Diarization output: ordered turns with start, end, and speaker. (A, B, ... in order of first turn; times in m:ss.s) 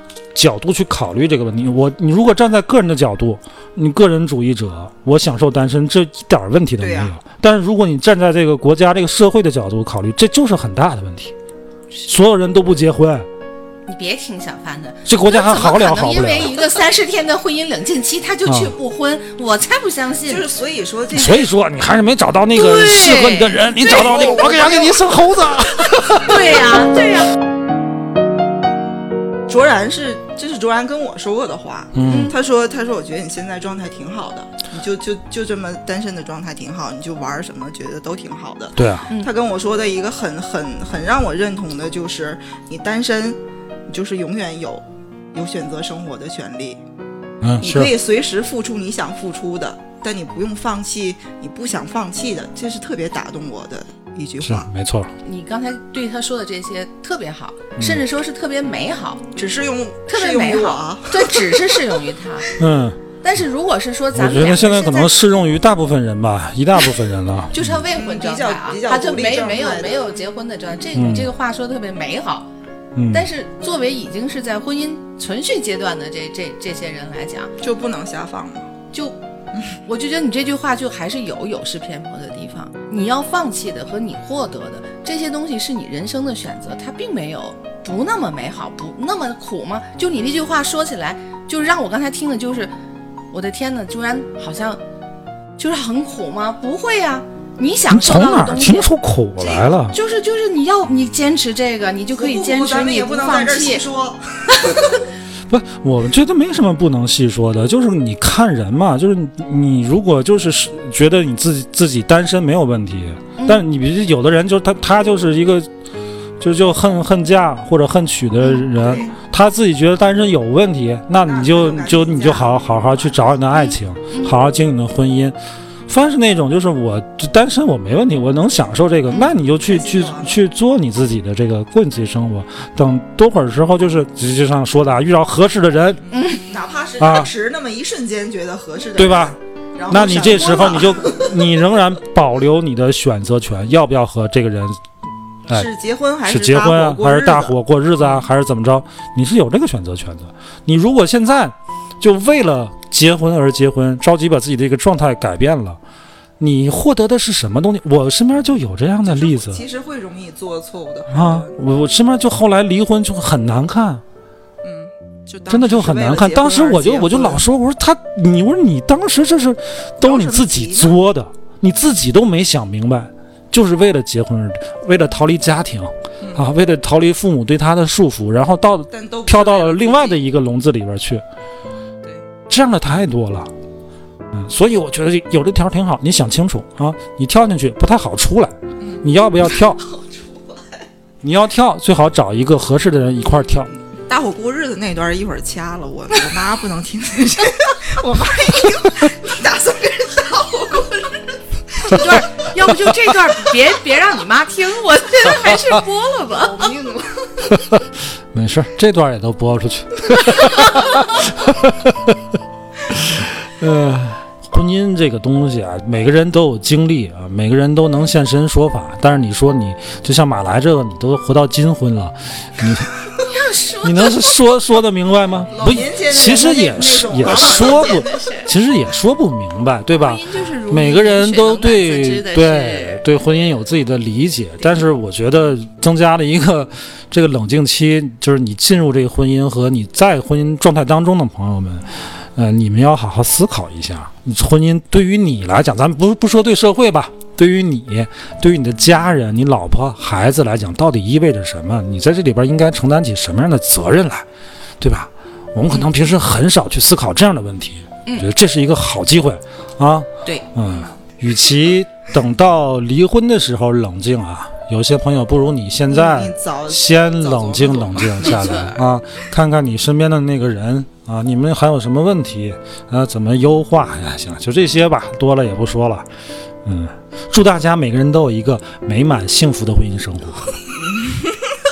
0:00.4-0:11.3 A
0:06.8-0:07.1 B
0:12.1-0:13.3 A
0:13.9-0:20.5 C
0:15.1-0:16.6 A
0:18.5-0:18.7 A
0:20.3-0:21.5 B
0:21.1-0:26.4 A
0:22.5-0:24.2 C
0:23.9-0:25.2 B
0:25.8-0:26.1 B
0:26.1-0:27.3 C
0:29.5-0:46.8 B
0:32.0-0:32.3 A
0:32.0-0:32.4 C
0:38.8-0:39.1 A
0:47.4-0:47.9 A
0:47.6-0:54.7 B
0:54.4-0:55.1 A
0:55.2-0:59.2 C
0:57.8-0:58.0 A
0:59.4-1:02.0 B
1:00.1-1:02.5 C
1:02.6-1:03.0 A
1:03.2-1:05.1 C
1:04.1-1:07.8 A
1:07.5-1:12.5 C
1:08.0-1:10.0 B
1:11.0-1:11.3 A
1:13.0-1:13.3 A
1:13.1-1:17.5 C
1:17.6-1:18.7 B
1:19.8-1:32.7 C
1:33.3-1:34.8 C
1:35.6-1:43.8 C
1:37.9-1:40.0 A
1:42.1-1:45.0 B
1:45.5-1:55.7 A
1:53.4-1:53.6 C
1:56.4-2:05.4 A
1:58.8-1:59.1 B
2:01.2-2:03.4 B
2:03.5-2:04.4 C
2:05.9-2:16.1 A
2:09.4-2:10.4 B
2:16.1-2:16.4 C
2:16.2-2:21.4 B
2:17.0-2:17.3 A
2:19.0-2:19.4 A
2:19.9-2:24.8 A
2:25.5-2:27.6 B
2:26.2-2:35.8 A
2:36.4-2:39.6 A
2:39.0-2:41.5 B
2:41.1-2:44.0 A
2:44.6-2:47.4 B
2:45.5-3:01.2 A
2:50.0-2:51.0 B
2:56.2-2:56.5 B
2:58.9-3:00.2 B
3:02.0-3:02.3 B
3:02.5-3:03.5 A
3:04.3-3:09.8 A
3:08.8-3:10.9 B
3:11.2-3:13.7 A
3:14.1-3:22.1 B
3:21.8-3:26.7 C
3:26.3-3:27.7 B
3:27.5-3:27.8 A
3:28.3-3:32.2 A
3:32.9-3:43.0 A
3:43.2-3:44.4 C
3:43.8-4:14.2 A
3:45.5-3:48.2 B
3:47.2-3:48.5 C
3:50.0-3:53.0 C
4:14.8-4:36.1 A
4:20.6-4:21.0 B
4:25.9-4:28.6 B
4:28.2-4:28.8 C
4:36.6-4:40.5 A
4:40.7-4:41.6 B